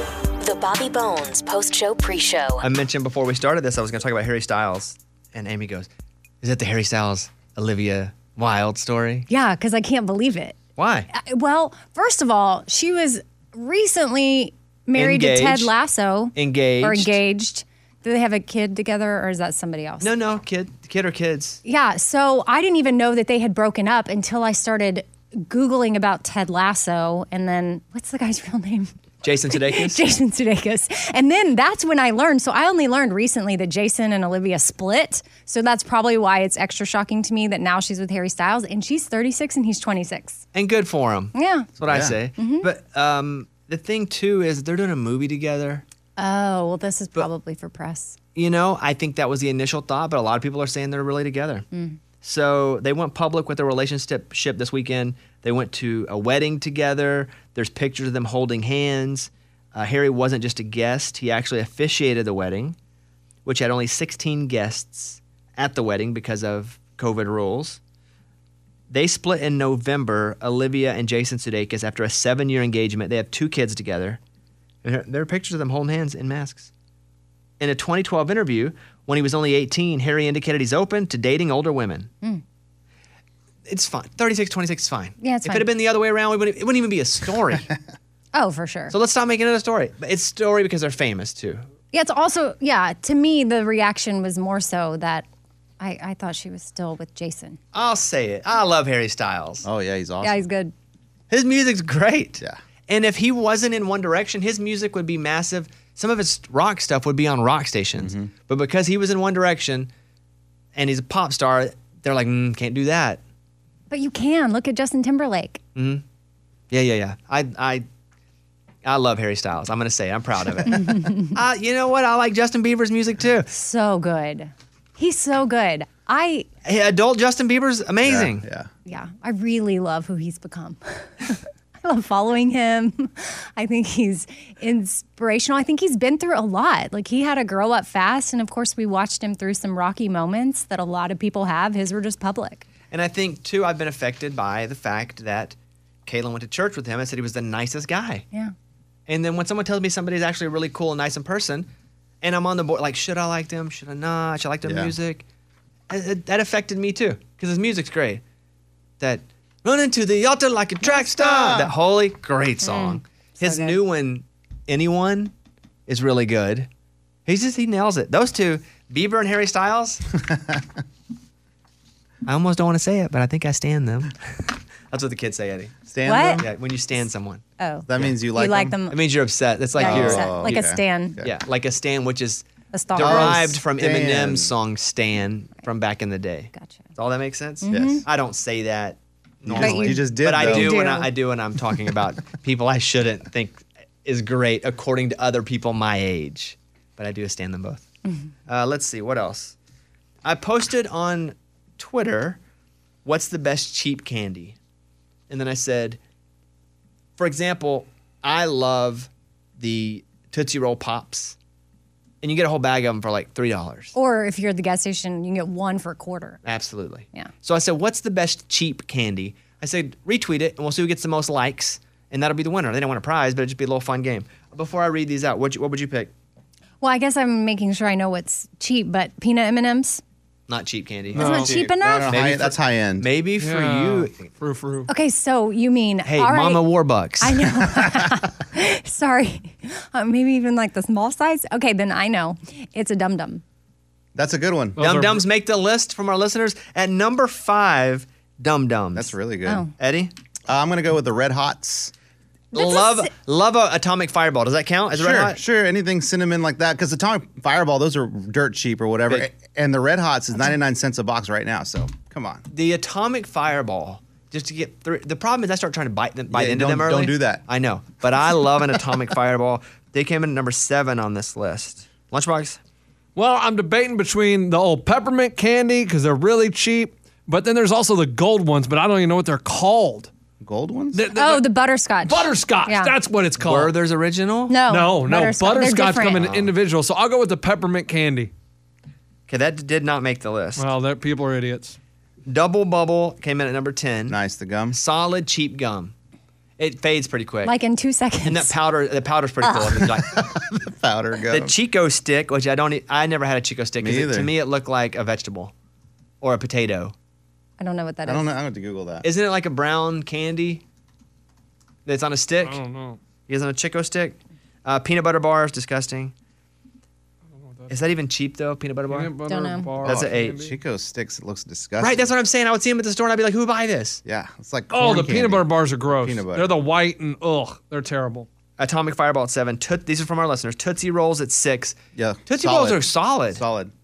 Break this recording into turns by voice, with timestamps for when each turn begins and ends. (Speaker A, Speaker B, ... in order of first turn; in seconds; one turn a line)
Speaker A: 0.4-2.6
Speaker B: 2.6-5.9
Speaker B: 6.4-9.3
Speaker C: 9.3-10.6
Speaker B: 10.8-11.1
Speaker C: 11.1-20.1
Speaker B: 15.0-15.7
Speaker B: 16.3-17.2
Speaker B: 20.0-21.6
Speaker C: 21.6-28.9
Speaker B: 29.2-30.0
Speaker C: 29.6-40.4
Speaker B: 40.5-45.8
Speaker C: 41.3-41.7
Speaker D: 41.9-42.1
Speaker C: 42.4-42.7
Speaker C: 46.2-48.1
Speaker B: 48.4-51.6
Speaker C: 51.7-52.0
Speaker B: 52.2-62.8
Speaker B: 63.5-67.8
Speaker B: 68.9-74.2
Speaker B: 74.8-76.7
Speaker B: 77.6-82.1
Speaker B: 83.7-87.7
Speaker C: 85.2-85.7
Speaker C: 88.3-88.9
Speaker B: 88.9-91.6
Speaker C: 91.9-95.3
Speaker C: 95.8-97.6
Speaker B: 97.7-99.7
Speaker D: 99.6-100.4
Speaker C: 100.2-100.7
Speaker B: 101.3-109.9
Speaker D: 108.0-108.3
Speaker B: 110.8-113.2
Speaker C: 113.9-115.6
Speaker B: 115.8-116.0
Speaker B: 116.7-117.9
Speaker B: 118.8-123.5
Speaker C: 120.7-121.3
Speaker C: 123.5-126.5
Speaker B: 126.7-128.4
Speaker D: 128.0-128.7
Speaker C: 128.8-142.6
Speaker B: 142.9-145.5
Speaker B: 146.1-148.2
Speaker B: 149.1-151.7
Speaker B: 152.2-155.2
Speaker D: 154.6-154.9
Speaker B: 155.9-158.2
Speaker B: 159.0-165.3
Speaker D: 160.9-161.7
Speaker C: 162.6-163.8
Speaker B: 165.9-166.7
Speaker B: 167.2-170.0
Speaker D: 170.2-170.6
Speaker B: 172.2-174.1
Speaker B: 174.9-175.7
Speaker D: 175.9-176.5
Speaker C: 176.1-176.4
Speaker B: 176.4-177.4
Speaker C: 177.6-179.0
Speaker D: 177.9-178.8
Speaker B: 178.9-180.6
Speaker C: 179.8-181.2
Speaker D: 179.8-181.3
Speaker B: 181.2-197.8
Speaker C: 182.7-183.4
Speaker D: 183.0-184.5
Speaker C: 186.5-186.8
Speaker C: 187.6-188.0
Speaker D: 187.7-188.0
Speaker D: 189.4-190.8
Speaker C: 189.6-191.1
Speaker B: 198.5-199.5
Speaker B: 200.2-202.4
Speaker B: 203.0-204.6
Speaker B: 205.3-206.0
Speaker B: 207.2-211.3
Speaker B: 212.2-213.9
Speaker C: 213.9-216.4
Speaker B: 216.4-226.1
Speaker C: 226.8-230.0
Speaker B: 230.5-234.1
Speaker E: 231.1-231.5
Speaker D: 231.1-233.1
Speaker C: 231.2-232.1
Speaker E: 233.4-234.9
Speaker C: 234.9-236.6
Speaker B: 236.1-237.5
Speaker C: 237.2-243.4
Speaker D: 237.7-238.0
Speaker D: 244.1-244.8
Speaker E: 244.8-245.2
Speaker B: 244.8-249.1
Speaker D: 248.9-249.6
Speaker B: 249.8-250.1
Speaker D: 250.5-251.9
Speaker C: 252.5-253.1
Speaker B: 252.5-255.4
Speaker D: 254.9-262.4
Speaker B: 262.5-272.6
Speaker D: 266.3-267.4
Speaker E: 273.2-280.1
Speaker D: 280.4-281.1
Speaker E: 280.9-281.5
Speaker C: 281.1-283.0
Speaker E: 282.1-283.7
Speaker B: 283.4-284.6
Speaker C: 284.5-286.2
Speaker E: 284.7-288.3
Speaker B: 286.2-286.5
Speaker B: 289.3-290.6
Speaker E: 290.6-291.8
Speaker B: 292.2-294.2
Speaker D: 294.1-294.8
Speaker B: 294.7-295.9
Speaker B: 296.6-297.5
Speaker C: 297.4-298.5
Speaker B: 298.2-300.3
Speaker D: 300.1-301.5
Speaker B: 301.3-305.5
Speaker D: 303.8-304.3
Speaker B: 306.2-306.9
Speaker C: 307.6-308.3
Speaker D: 308.1-309.1
Speaker B: 309.0-310.6
Speaker B: 311.9-312.6
Speaker E: 312.4-313.0
Speaker B: 313.3-316.1
Speaker E: 317.4-317.7
Speaker B: 317.7-319.1
Speaker E: 318.9-320.5
Speaker C: 319.2-319.8
Speaker B: 319.8-320.4
Speaker D: 319.8-322.0
Speaker B: 321.8-324.0
Speaker D: 324.1-326.6
Speaker E: 324.7-328.3
Speaker B: 328.6-333.4
Speaker D: 332.0-333.7